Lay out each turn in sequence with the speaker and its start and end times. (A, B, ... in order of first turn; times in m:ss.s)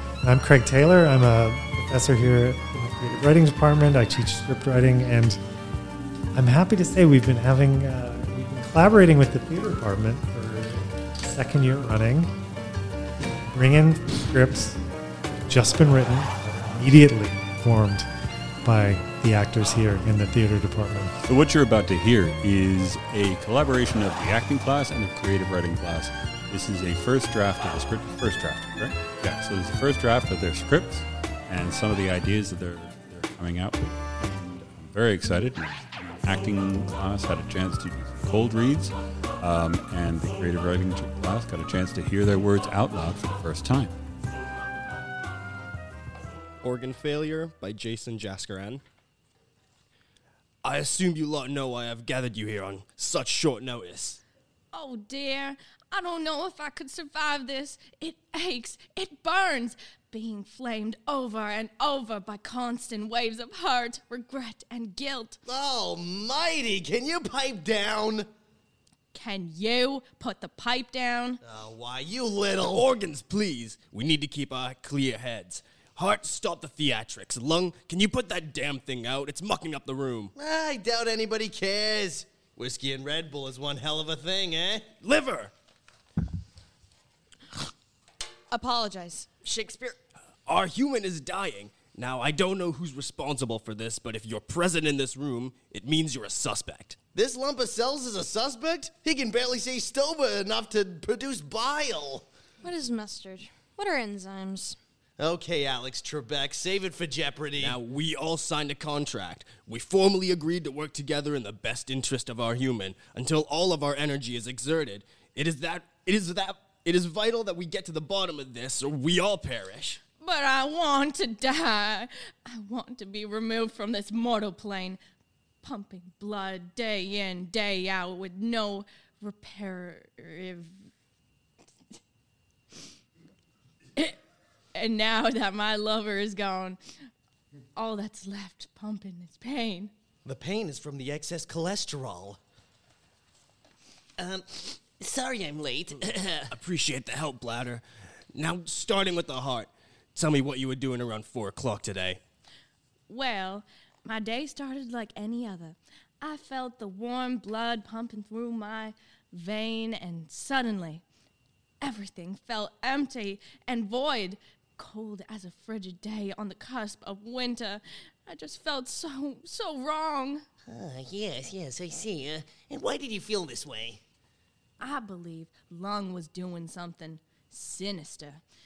0:00.2-0:05.4 A
0:06.3-0:12.3 A
0:13.5-0:14.8 A
0:15.5-0:18.1 A
0:18.6-0:21.2 A
0:21.2-0:43.9 B
0:46.6-0:48.8 C
0:50.6-0:54.2 C
0:54.7-1:05.4 D
1:05.4-1:08.3 E
1:09.1-1:11.4 D
1:11.4-1:12.9 E
1:12.6-1:20.3 C
1:20.3-1:24.9 E
1:25.0-1:25.5 C
1:28.5-1:30.0 F
1:30.4-1:37.0 C
1:37.0-1:42.2 E
1:42.6-1:44.8 F
1:45.2-1:47.8 E
1:47.6-2:00.0 C
2:00.2-2:05.0 D
2:05.6-2:10.7 D
2:14.7-2:16.8 D
2:17.8-2:19.9 D
2:20.2-2:22.4 E
2:24.2-2:26.5 E
2:26.5-2:32.2 C
2:33.1-2:41.0 D
2:41.8-2:50.4 D
2:50.7-2:54.0 E
2:54.8-2:58.4 D